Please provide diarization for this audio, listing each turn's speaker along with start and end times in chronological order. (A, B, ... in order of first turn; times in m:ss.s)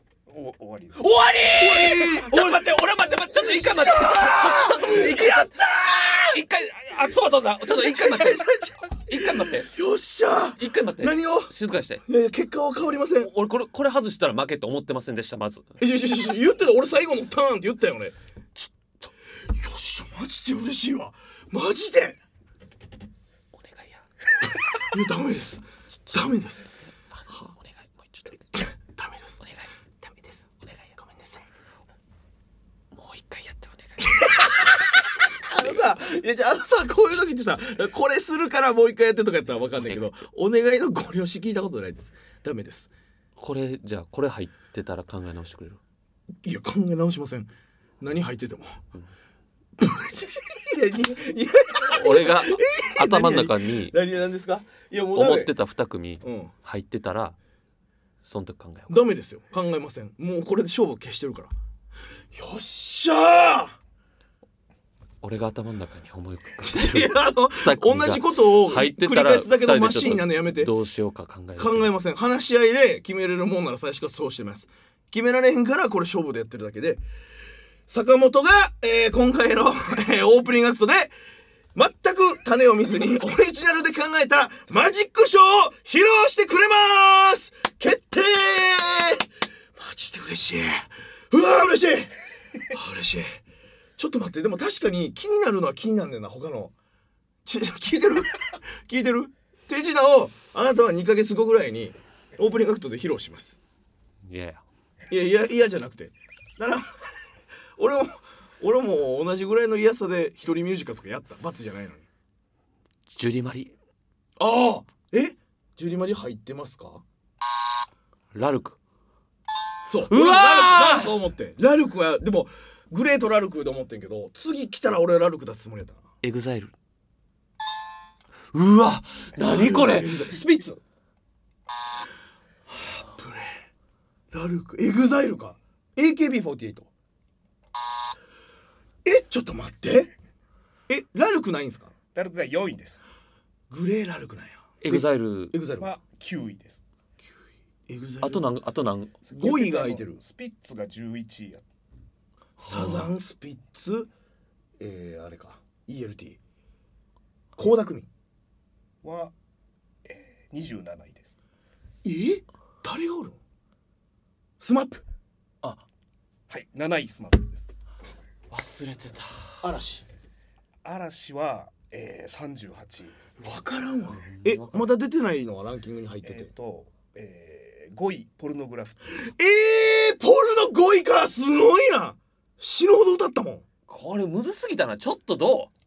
0:00.3-0:01.1 A
0:01.0-0:05.6 B
0:01.5-0:02.7 C
0:03.3-0:06.4 C
0:06.1-0:09.7 B
0:07.7-0:11.5 C
0:10.6-0:12.0 B
0:12.0-0:13.3 C
0:13.2-0:15.6 B
0:15.8-0:18.1 C
0:18.6-0:19.1 B
0:19.5-0:22.2 C
0:23.5-0:24.0 B
0:24.8-0:26.6 C
0:27.3-0:28.4 B
0:28.5-0:29.4 C
0:30.4-0:30.9 B
0:31.0-0:31.4 C
0:32.9-0:34.8 B
0:34.0-0:42.9 C
0:39.8-0:40.1 B
0:43.4-0:45.8 B
0:46.4-0:47.5 C
0:48.0-0:48.8 C
0:49.8-0:55.5 C
0:51.9-0:54.0 B
0:55.1-0:57.4 B
0:56.2-0:56.5 C
0:58.2-0:58.9 B
0:58.9-1:01.5 C
1:02.3-1:03.8 C
1:05.2-1:11.9 B
1:06.6-1:10.7 C
1:11.6-1:17.0 C
1:17.9-1:21.1 C
1:21.7-1:32.1 C
1:32.7-1:33.4 C
1:34.0-1:36.7 C
1:37.4-1:43.6 C
1:44.3-1:44.6 B
1:45.1-1:46.9 C
1:47.8-1:52.0 C
1:53.1-1:53.7 B
1:54.4-1:57.0 C
1:58.3-1:58.8 B
1:59.9-2:06.0 C
2:00.1-2:01.1 B
2:06.2-2:06.7 B
2:08.5-2:10.4 B
2:09.4-2:10.8 C
2:12.9-2:13.7 C
2:14.3-2:16.9 C
2:19.0-2:20.1 C
2:20.9-2:21.9 C
2:22.1-2:23.0 A
2:23.7-2:25.9 C
2:24.8-2:25.6 B
2:25.8-2:26.8 A
2:27.9-2:28.5 C
2:28.2-2:29.1 B
2:29.3-2:31.6 A
2:29.4-2:30.2 C
2:32.6-2:33.1 B
2:32.6-2:34.1 C
2:34.8-2:36.4 C
2:37.6-2:38.1 C
2:39.0-2:39.3 A
2:40.1-2:41.3 A
2:42.0-2:43.4 C
2:44.6-2:45.0 C
2:46.5-2:47.6 A
2:48.5-2:49.6 B
2:49.6-2:50.0 C
2:50.8-2:53.3 A
2:53.4-2:56.5 C
2:54.2-2:54.8 B
2:56.2-2:59.3 A
2:59.2-3:03.6 C
3:03.9-3:05.7 B